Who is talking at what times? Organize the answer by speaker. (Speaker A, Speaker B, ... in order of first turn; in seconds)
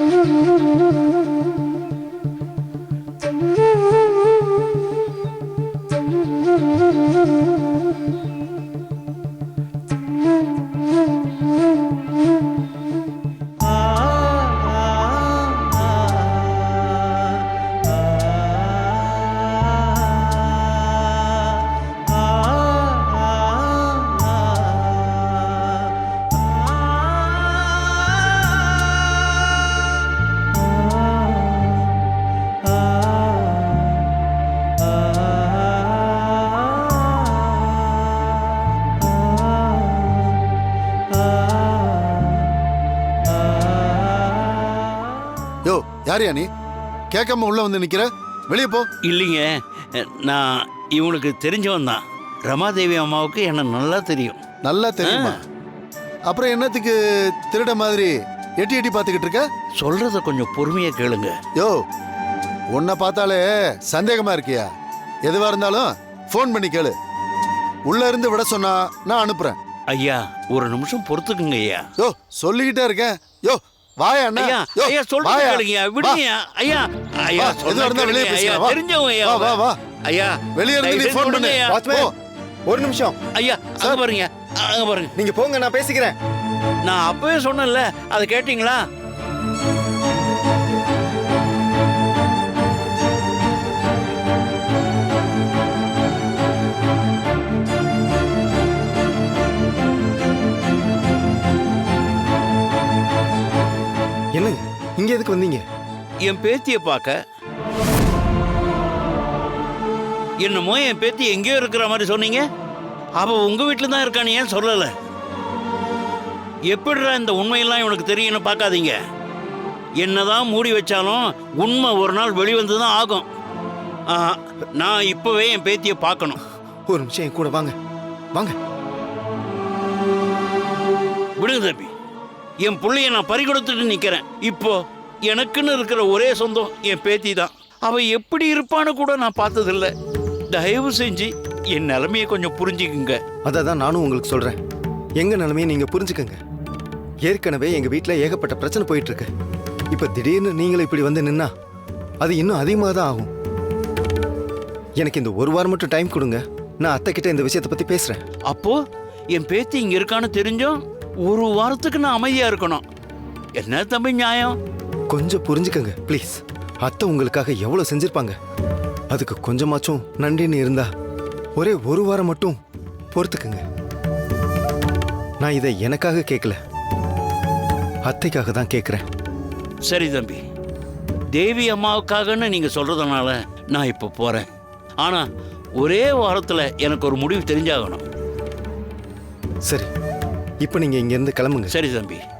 Speaker A: 45.6-46.5, 47.1-48.9, 54.6-55.4, 56.3-59.5, 61.6-61.8, 62.7-64.7, 65.2-67.0, 67.9-69.6, 72.0-76.2, 77.4-79.8, 80.5-82.1
Speaker B: 49.0-54.4, 55.0-55.4, 59.8-61.4, 69.9-71.9, 74.4-81.8, 83.3-85.1, 86.8-88.8, 106.2-107.2, 110.4-112.5, 113.2-114.9, 116.7-119.0, 120.0-123.3, 124.1-126.4, 131.4-131.9, 132.6-139.9, 140.5-143.2, 158.5-162.8, 163.6-164.6, 179.8-180.4, 181.3-184.5, 185.8-188.1, 191.7-192.2
Speaker C: 81.6-82.1, 82.7-83.2, 85.2-86.2, 104.3-105.6, 126.9-127.7, 143.4-144.6, 145.2-146.4, 147.2-149.3, 149.9-151.5, 152.2-153.3, 155.0-158.2, 165.1-168.4, 169.1-170.9, 171.6-172.6, 173.1-173.6, 175.4-176.6, 178.1-179.0, 190.6-191.7